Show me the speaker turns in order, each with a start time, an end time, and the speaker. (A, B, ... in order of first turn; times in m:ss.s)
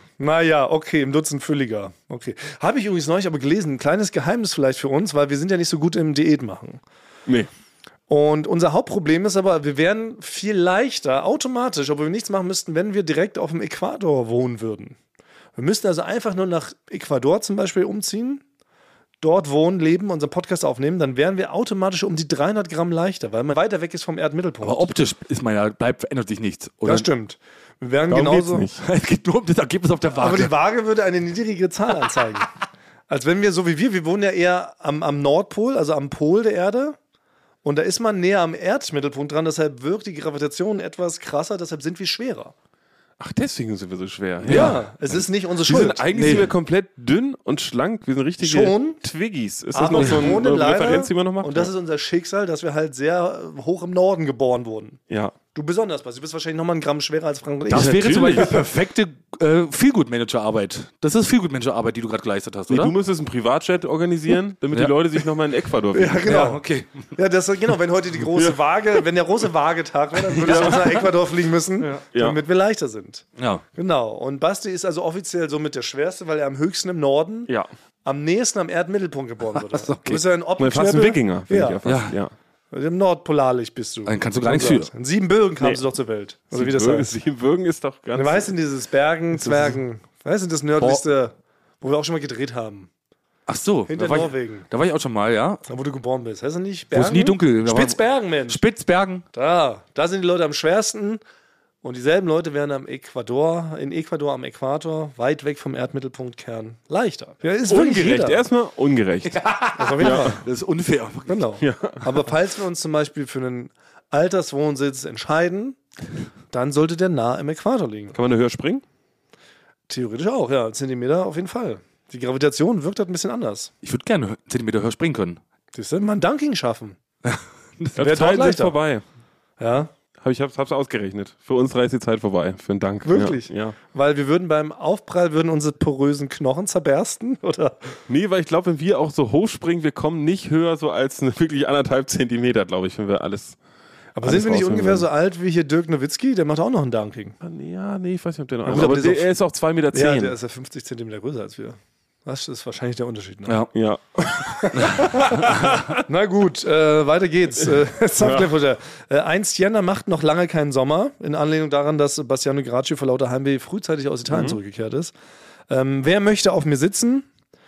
0:00.2-0:06.8 A
0:08.1-0:15.0 A
0:15.6-0:18.4 A
0:19.2-0:24.9 A
0:24.6-0:27.1 B
0:26.8-0:28.7 A
0:28.1-0:28.8 C
0:28.8-0:30.5 B
0:30.2-0:32.5 A
0:33.1-0:37.0 A
0:37.6-0:42.5 A
0:43.2-0:51.7 C
0:44.4-0:44.8 B
0:44.5-0:46.4 A
0:46.1-0:46.5 B
0:48.4-0:49.0 A
0:49.7-0:55.0 A
0:49.9-0:50.4 B
0:55.1-0:55.4 C
0:55.5-0:58.6 A
0:57.7-1:02.9 B
0:57.8-0:58.6 C
1:02.7-1:06.6 C
1:05.9-1:06.6 A
1:06.2-1:07.1 B
1:07.1-1:17.5 A
1:10.4-1:11.1 C
1:12.1-1:12.4 C
1:13.4-1:13.6 B
1:18.0-1:21.8 A
1:19.6-1:20.2 B
1:20.6-1:22.3 C
1:21.8-1:22.2 B
1:22.7-1:27.2 A
1:24.1-1:24.9 B
1:26.5-1:28.5 C
1:28.2-1:32.9 A
1:29.4-1:29.8 C
1:33.5-1:35.6 B
1:33.9-1:34.7 A
1:35.7-1:38.6 A
1:36.9-1:39.2 B
1:39.3-1:41.2 A
1:41.8-1:48.4 A
1:47.7-1:49.4 C
1:49.2-1:51.5 B
1:49.8-1:50.4 A
1:50.0-1:50.4 C
1:51.3-1:55.8 A
1:51.6-1:52.2 C
1:56.5-1:58.2 A
1:58.1-1:58.8 C
1:59.9-2:03.7 A
2:03.8-2:05.4 B
2:05.8-2:07.0 A
2:07.3-2:08.1 B
2:08.0-2:09.0 C
2:08.0-2:08.8 A
2:09.6-2:09.9 A
2:10.2-2:13.8 C
2:13.0-2:17.8 A
2:18.1-2:23.6 C
2:24.2-2:27.4 A
2:24.2-2:25.0 C
2:27.4-2:30.4 C
2:28.7-2:29.3 A
2:29.9-2:33.7 A
2:33.5-2:33.7 B
2:33.7-2:35.8 C
2:34.5-2:45.1 A
2:34.8-2:35.9 B
2:38.2-2:38.5 C
2:44.3-2:44.6 C
2:45.7-2:47.3 A